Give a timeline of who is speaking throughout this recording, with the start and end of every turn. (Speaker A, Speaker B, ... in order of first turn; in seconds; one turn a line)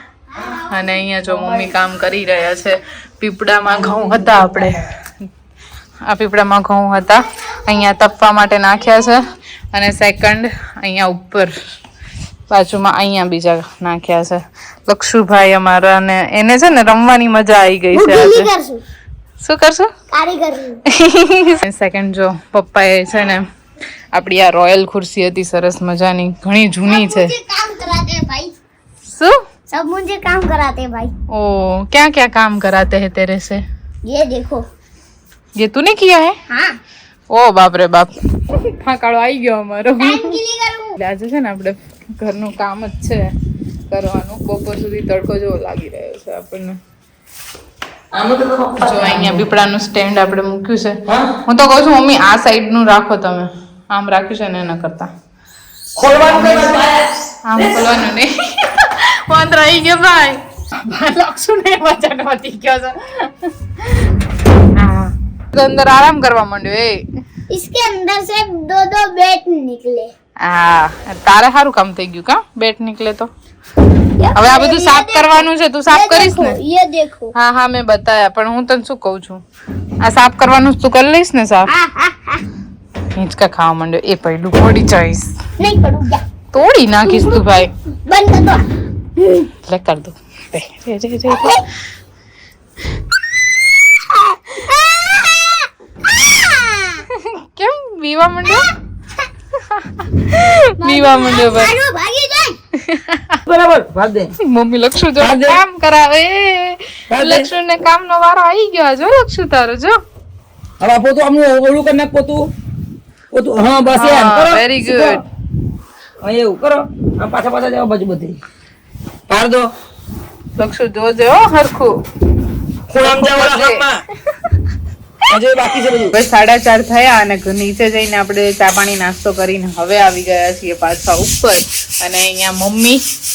Speaker A: 0.6-4.9
Speaker B: 1.3-1.7
Speaker B: 3.9-4.6
Speaker A: 6.1-11.5
Speaker A: 12.5-18.5
Speaker C: 17.9-18.8
Speaker A: 19.4-19.9
Speaker C: 20.1-20.8
Speaker A: 20.9-23.4
Speaker A: 24.1-27.3
Speaker C: 26.9-28.6
Speaker A: 29.1-29.4
Speaker C: 29.7-31.1
Speaker A: 31.3-33.6
Speaker C: 34.0-34.7
Speaker A: 35.6-36.4
Speaker C: 36.5-36.8
Speaker A: 37.3-40.3
Speaker C: 40.0-41.0
Speaker A: 41.0-43.3
Speaker A: 43.9-46.8
Speaker B: 48.1-49.4
Speaker A: 48.8-55.1
Speaker B: 51.1-51.3
Speaker B: 56.0-57.9
Speaker A: 56.2-56.8
Speaker A: 57.5-63.3
Speaker A: 64.8-67.0
Speaker C: 67.5-70.1
Speaker A: 70.4-73.3
Speaker C: 74.2-77.3
Speaker A: 74.3-76.6
Speaker A: 77.3-79.4
Speaker A: 80.0-81.7
Speaker C: 81.7-82.5
Speaker A: 83.2-85.3
Speaker C: 85.6-86.2
Speaker A: 86.5-87.7
Speaker C: 87.0-88.7
Speaker A: 89.5-91.6
Speaker C: 91.3-91.6
Speaker C: 93.5-97.0
Speaker A: 97.1-98.7
Speaker A: 99.6-101.7
Speaker C: 100.8-102.6
Speaker A: 102.8-103.4
Speaker B: 103.5-104.3
Speaker A: 104.4-110.0
Speaker B: 105.2-105.6
Speaker B: 107.1-107.5
Speaker B: 110.8-112.5
Speaker B: 113.3-115.2
Speaker A: 113.9-115.2
Speaker B: 116.2-118.4
Speaker B: 119.3-119.7
Speaker A: 120.6-122.0
Speaker B: 122.9-124.0
Speaker A: 123.0-123.8
Speaker B: 125.3-126.1
Speaker A: 126.1-133.0